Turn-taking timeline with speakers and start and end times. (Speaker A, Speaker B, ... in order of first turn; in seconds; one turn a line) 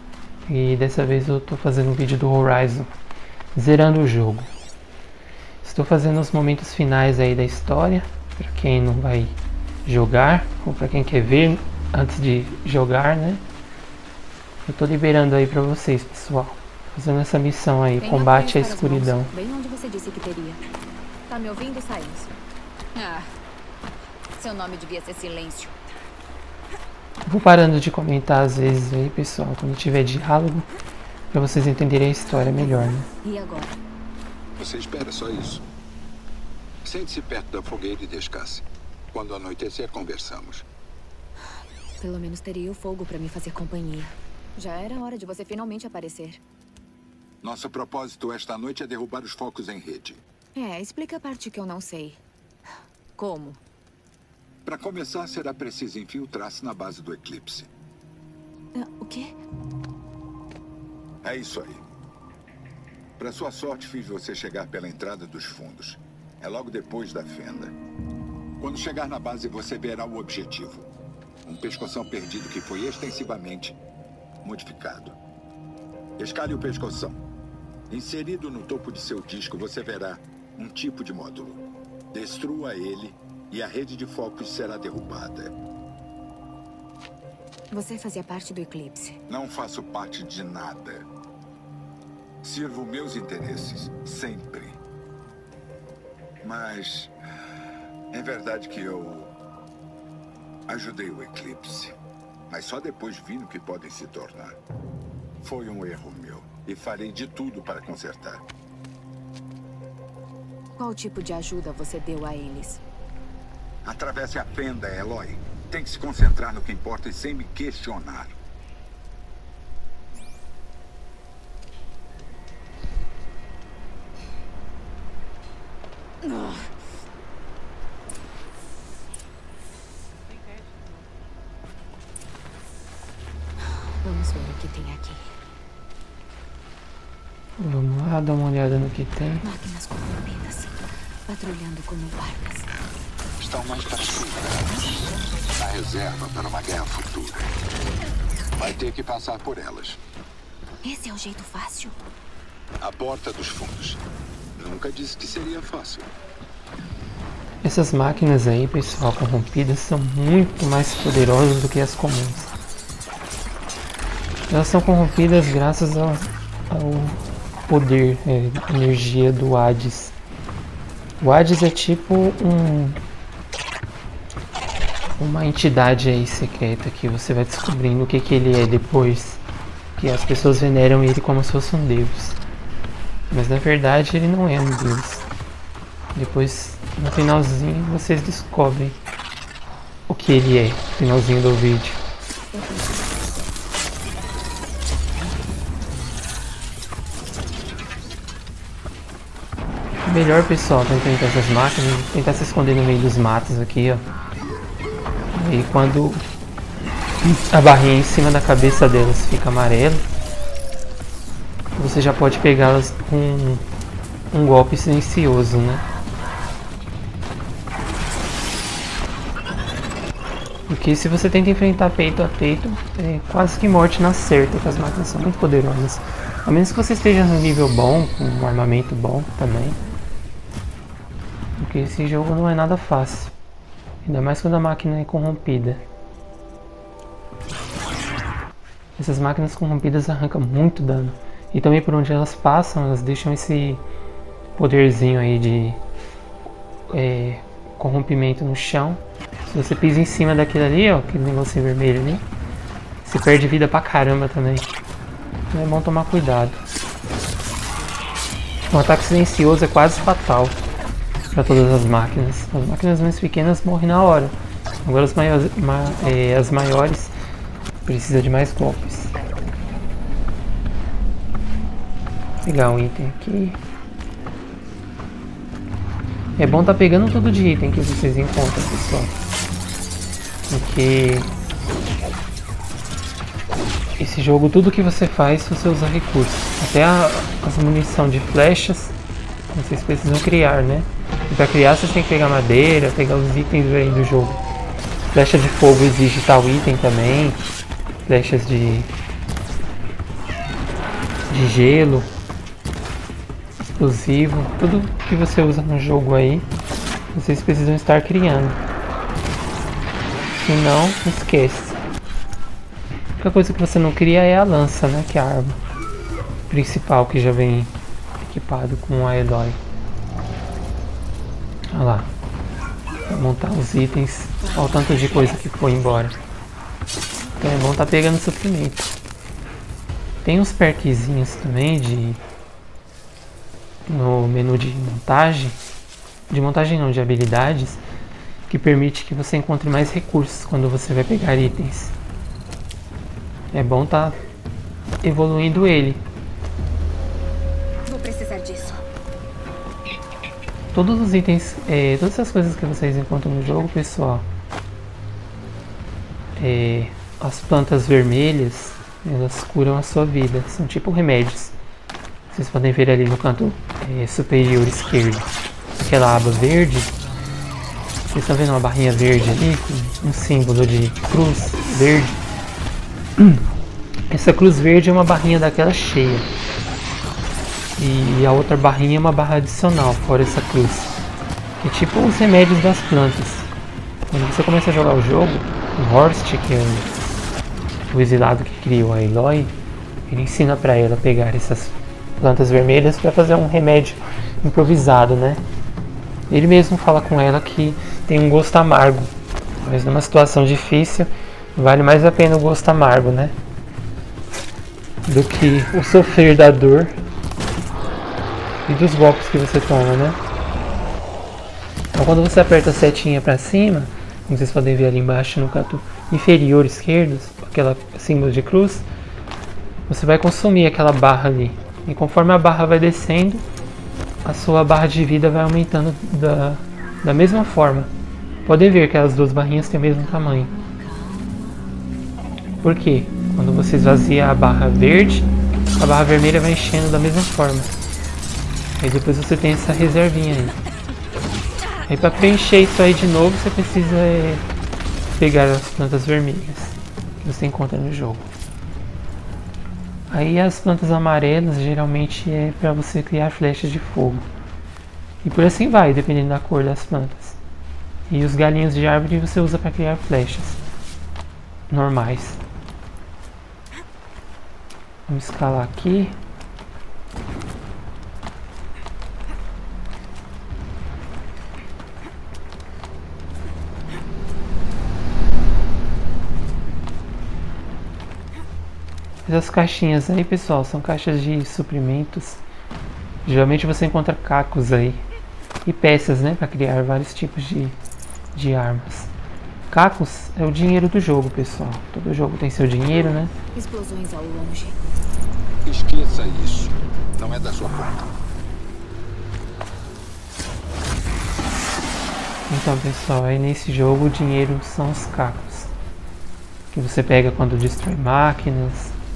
Speaker A: 0.5-2.9
Speaker A: 3.5-4.5
Speaker A: 5.6-13.4
Speaker A: 14.7-19.3
Speaker B: 18.0-20.6
Speaker B: 21.3-22.3
Speaker B: 22.9-23.3
Speaker B: 24.4-25.8
Speaker A: 27.2-30.7
Speaker A: 31.3-33.1
Speaker B: 32.6-33.8
Speaker C: 34.6-35.6
Speaker C: 36.8-40.6
Speaker B: 42.0-46.4
Speaker C: 47.4-50.2
Speaker B: 50.5-52.2
Speaker B: 53.1-53.6
Speaker C: 54.6-57.7
Speaker B: 58.7-59.3
Speaker C: 61.2-61.8
Speaker C: 63.2-67.7
Speaker C: 68.6-70.9
Speaker C: 71.4-73.8
Speaker C: 74.4-75.2
Speaker C: 76.2-77.2
Speaker C: 77.9-85.5
Speaker B: 87.7-89.2
Speaker C: 89.3-91.1
Speaker C: 92.4-94.8
Speaker C: 96.4-97.1
Speaker C: 98.1-99.3
Speaker C: 100.7-102.0
Speaker C: 102.5-104.6
Speaker C: 105.4-108.4
Speaker B: 110.8-112.8
Speaker C: 113.8-118.3
Speaker B: 126.2-126.7
Speaker B: 134.0-135.3
Speaker A: 137.6-139.4
Speaker B: 139.4-142.7
Speaker C: 143.4-144.8
Speaker C: 145.5-147.5
Speaker C: 148.6-150.0
Speaker B: 150.8-152.0
Speaker C: 152.8-154.0
Speaker C: 154.6-156.1
Speaker A: 157.6-162.5
Speaker A: 164.5-170.1
Speaker A: 171.2-173.0
Speaker A: 175.2-179.4
Speaker A: 179.9-182.4
Speaker A: 183.3-185.3
Speaker A: 186.1-189.0
Speaker A: 190.1-192.0
Speaker B: 192.5-193.0
Speaker A: 200.0-204.1
Speaker A: 205.3-206.2
Speaker A: 207.2-210.1
Speaker A: 211.8-213.7
Speaker A: 214.3-215.8
Speaker A: 220.7-229.8
Speaker A: 231.6-233.3
Speaker A: 234.0-235.8
Speaker A: 239.0-243.8
Speaker A: 244.6-245.8
Speaker A: 246.9-252.3
Speaker A: 253.0-254.7
Speaker A: 255.5-256.6
Speaker A: 258.7-260.6
Speaker A: 261.3-267.1
Speaker A: 267.8-269.1
Speaker A: 272.4-273.6
Speaker A: 276.4-279.1
Speaker A: 280.5-281.3
Speaker A: 284.0-288.9
Speaker A: 289.5-294.4
Speaker A: 295.1-297.5
Speaker A: 298.0-298.9
Speaker A: 301.3-302.1
Speaker A: 303.8-306.5
Speaker A: 307.1-308.6
Speaker A: 310.4-311.8
Speaker A: 313.2-315.6
Speaker A: 316.5-317.7
Speaker A: 318.2-319.6
Speaker A: 321.7-322.1
Speaker A: 323.1-326.2
Speaker A: 327.4-328.9
Speaker A: 330.2-332.2
Speaker A: 333.9-335.6
Speaker A: 336.3-337.8
Speaker A: 338.5-341.9
Speaker A: 343.5-344.2
Speaker A: 345.0-346.0
Speaker B: 347.9-348.8
Speaker A: 350.7-354.3
Speaker A: 356.4-361.6
Speaker A: 362.3-367.0
Speaker A: 368.1-372.2
Speaker A: 373.2-373.4
Speaker A: 374.1-376.3
Speaker A: 377.8-380.9
Speaker A: 381.6-383.5
Speaker A: 384.1-386.9
Speaker A: 387.9-389.5
Speaker A: 390.1-395.4
Speaker A: 396.3-403.4
Speaker A: 405.1-407.0
Speaker A: 408.6-410.2
Speaker A: 411.9-418.9
Speaker A: 419.9-423.5
Speaker A: 424.2-427.9
Speaker A: 428.4-430.5
Speaker B: 429.7-431.6
Speaker A: 432.6-437.7
Speaker A: 438.8-440.5
Speaker A: 441.9-444.4
Speaker A: 445.2-448.3
Speaker A: 450.1-454.3
Speaker A: 455.2-457.4
Speaker A: 458.1-460.6
Speaker A: 461.7-462.4
Speaker A: 465.1-466.2
Speaker A: 479.2-482.4
Speaker A: 483.2-485.0
Speaker A: 485.6-487.8
Speaker A: 488.3-489.1
Speaker A: 489.7-493.3
Speaker B: 493.5-494.8
Speaker C: 495.6-498.1
Speaker A: 502.5-505.7
Speaker A: 506.7-508.9